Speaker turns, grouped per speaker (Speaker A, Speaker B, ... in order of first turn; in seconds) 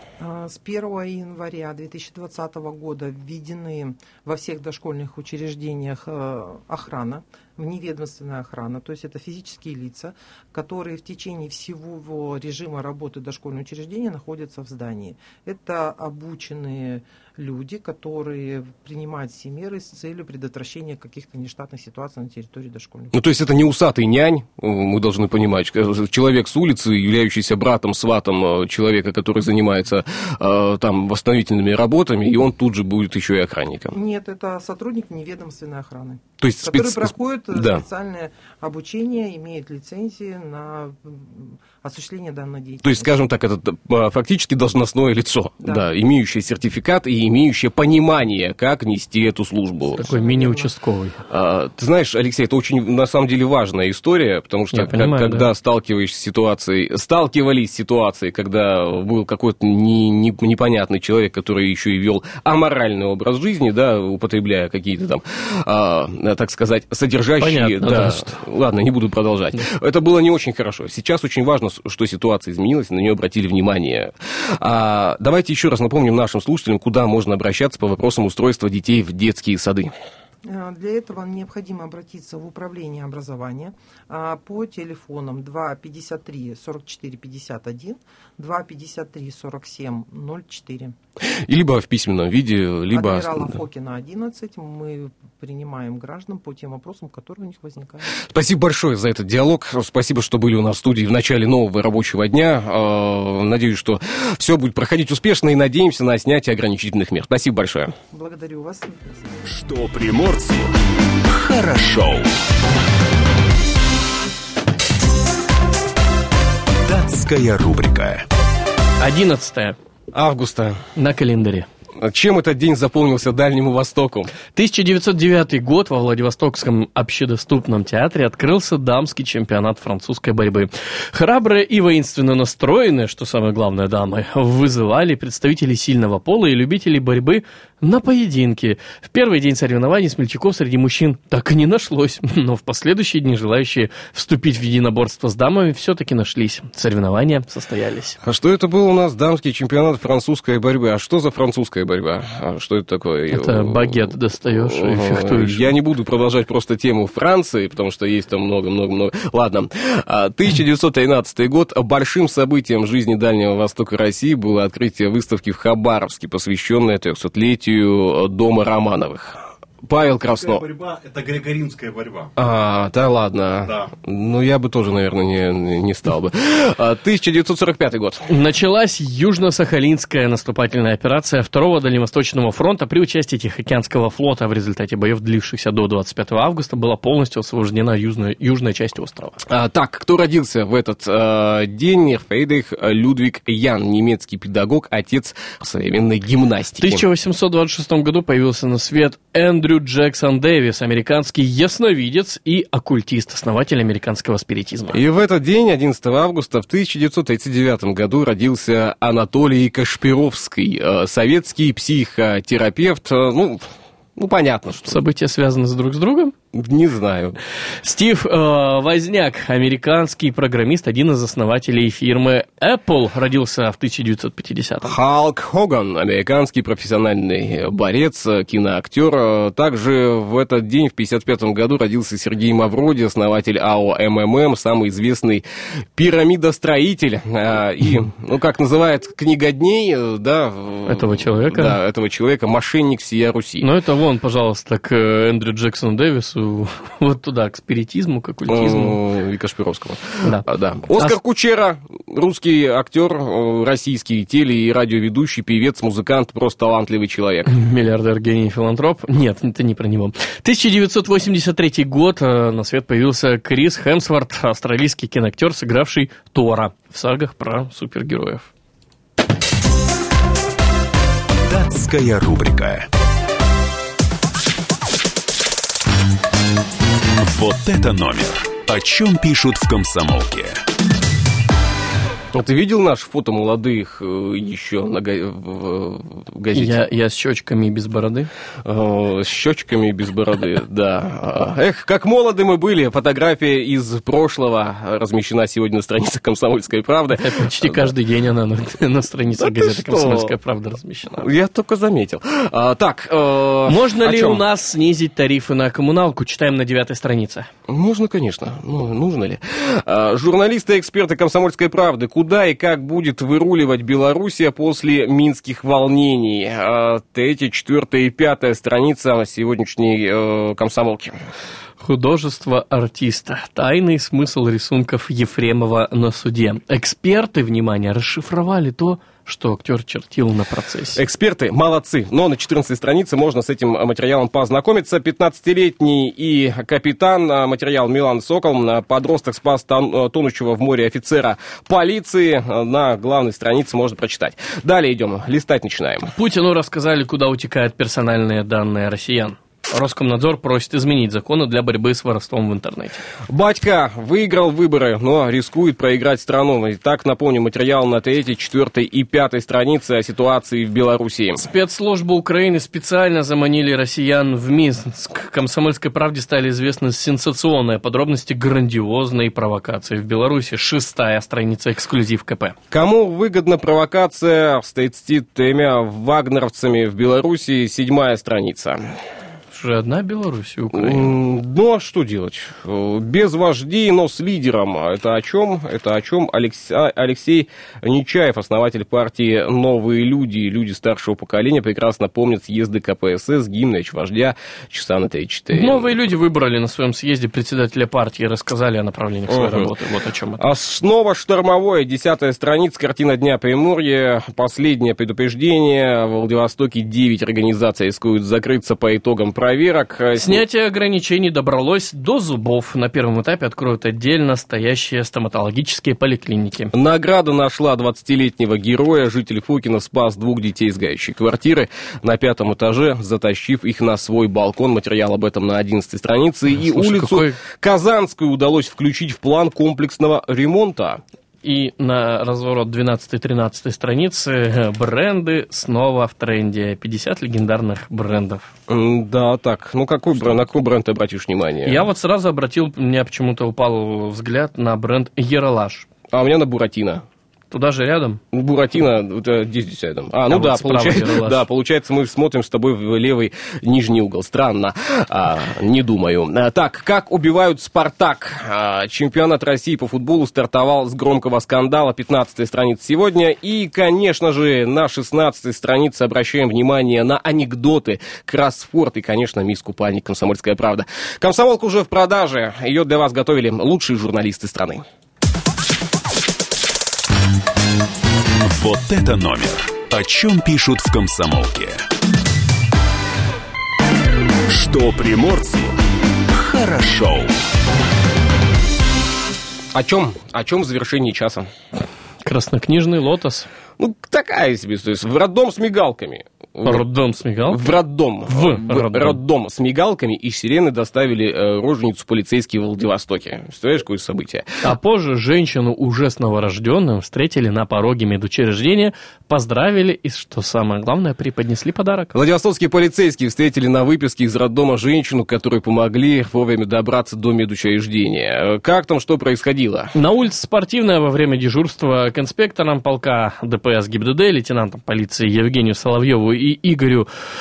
Speaker A: 0.2-23.2, 33.9-43.2, 45.6-45.9, 50.0-50.7, 80.4-90.9, 92.9-98.2, 108.1-109.2
Speaker B: 23.1-33.9, 36.4-37.8, 42.8-50.0, 51.3-79.9, 91.4-93.5, 98.3-107.9, 120.1-120.8, 122.0-124.4, 148.2-170.7, 172.4-178.3, 189.5-197.0, 204.9-215.0, 216.5-217.4, 224.8-235.4, 236.0-243.7, 248.5-257.5, 282.3-286.8, 288.6-297.9, 299.4-300.4, 301.1-304.4, 307.7-321.1, 331.0-346.1, 353.3-361.5, 372.7-379.0, 380.7-396.0, 399.3-399.7, 400.4-410.4, 416.7-431.0, 438.7-441.9, 446.1-447.0, 448.3-474.8, 489.7-491.5, 493.8-496.8, 497.5-504.6, 512.1-519.9
Speaker C: 49.9-51.2, 54.7-55.5, 67.4-68.4, 119.0-119.8, 121.0-121.7, 124.5-148.2, 153.3-155.7, 178.3-189.4, 196.8-205.0, 214.9-216.3, 217.8-224.9, 240.9-241.8, 243.6-249.0, 257.5-268.5, 286.5-288.3, 297.2-301.3, 303.7-307.5, 321.8-331.0, 346.1-353.0, 361.4-372.6, 379.5-381.1, 395.5-400.4, 410.2-416.7, 426.6-427.4, 431.4-438.5, 441.6-445.9, 447.5-448.2, 450.3-451.4, 492.2-493.5, 496.6-497.7, 498.3-499.2, 504.6-512.1, 519.9-527.1
Speaker D: 109.5-110.7, 111.3-112.3, 116.8-118.2, 271.4-272.9, 277.2-280.6, 478.4-481.8, 484.5-485.8, 486.4-487.3
Speaker E: 170.4-172.3, 173.6-173.9